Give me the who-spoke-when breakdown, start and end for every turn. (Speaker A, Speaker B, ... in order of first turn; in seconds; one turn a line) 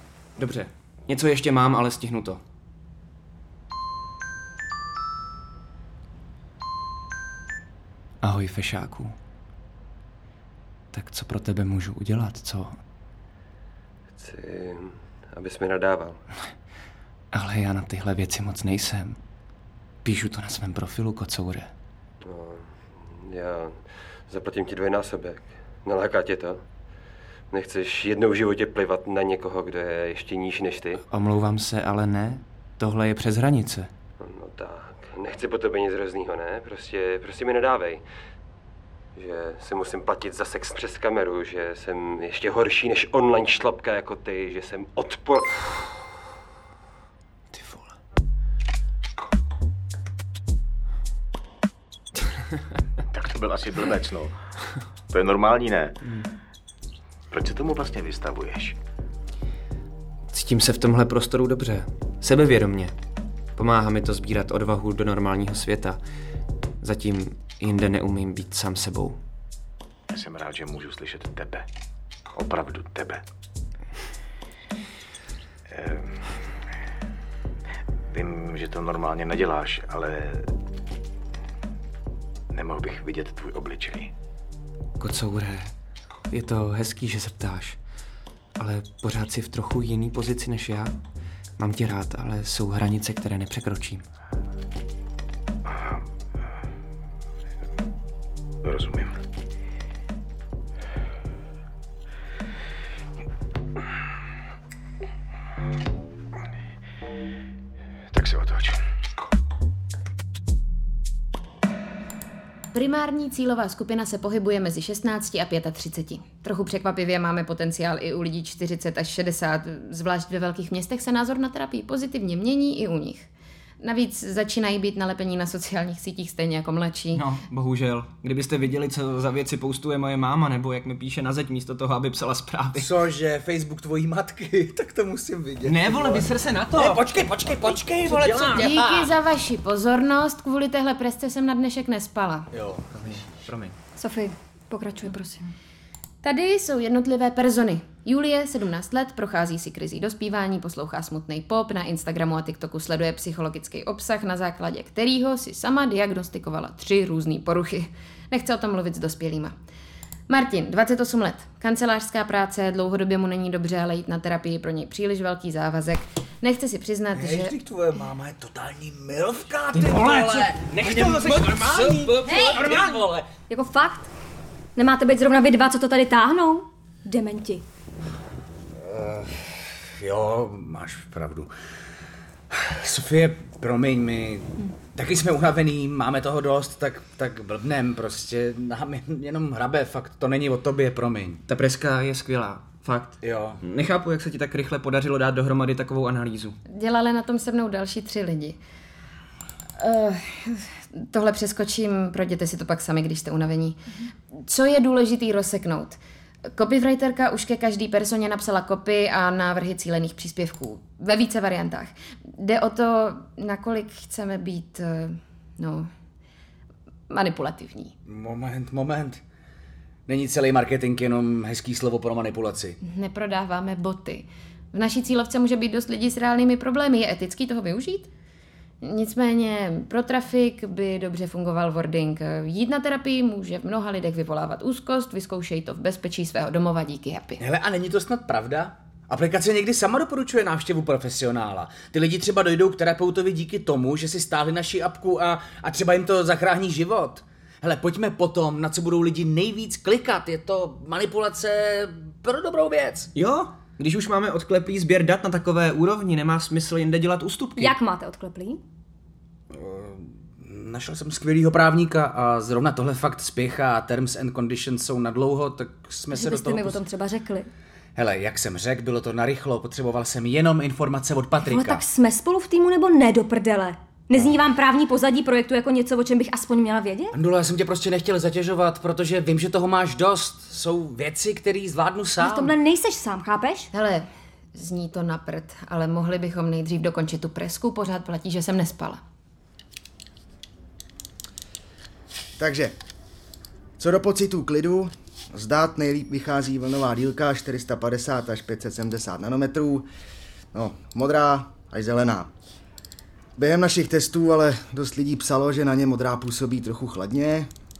Speaker A: 0.4-2.4
Speaker A: 8.2-9.1
Speaker A: 10.9-12.8
Speaker B: 14.2-16.2
Speaker A: 17.3-19.2
Speaker A: 20.0-21.7
Speaker B: 22.2-26.6
Speaker B: 27.5-31.0
Speaker A: 31.1-33.9
Speaker B: 34.2-38.0
Speaker B: 39.1-45.6
Speaker A: 47.5-47.9
Speaker C: 53.1-54.3
Speaker C: 55.1-55.9
Speaker C: 57.3-58.8
Speaker A: 60.3-62.9
Speaker A: 63.6-66.0
Speaker A: 66.8-69.2
Speaker C: 70.1-71.6
Speaker C: 72.3-73.2
Speaker C: 75.7-76.1
Speaker C: 78.1-80.4
Speaker C: 82.5-84.1
Speaker A: 85.0-85.7
Speaker A: 86.3-87.8
Speaker A: 88.6-90.9
Speaker A: 91.6-94.0
Speaker C: 98.6-99.1
Speaker C: 108.1-108.8
Speaker D: 112.7-123.3
Speaker D: 123.8-127.2
Speaker A: 127.1-132.9
Speaker E: 132.8-139.1
Speaker A: 135.6-137.1
Speaker A: 137.9-138.7
Speaker D: 138.5-142.5
Speaker E: 142.5-143.3
Speaker A: 142.9-143.7
Speaker F: 144.0-145.5
Speaker D: 146.2-159.5
Speaker D: 160.3-167.5
Speaker E: 167.1-173.3
Speaker A: 169.7-173.0
Speaker F: 172.2-172.6
Speaker F: 173.5-174.1
Speaker F: 174.7-177.6
Speaker E: 178.8-181.5
Speaker E: 182.5-191.4
Speaker A: 191.5-196.6
Speaker E: 193.2-193.6
Speaker D: 196.7-198.6
Speaker D: 199.8-203.8
Speaker D: 204.5-206.0
Speaker D: 206.5-215.8
Speaker D: 217.1-217.9
Speaker E: 218.1-219.2
Speaker E: 220.1-222.8
Speaker D: 222.8-228.1
Speaker D: 228.8-237.4
Speaker E: 237.4-253.1
Speaker A: 253.1-257.7
Speaker F: 257.6-258.6
Speaker E: 259.5-266.8
Speaker F: 266.1-267.5
Speaker E: 267.9-271.8
Speaker F: 271.4-277.1
Speaker E: 277.1-282.5
Speaker F: 282.2-283.7
Speaker D: 283.7-289.0
Speaker G: 292.4-292.7
Speaker G: 293.8-299.9
Speaker G: 300.5-302.3
Speaker G: 303.4-307.5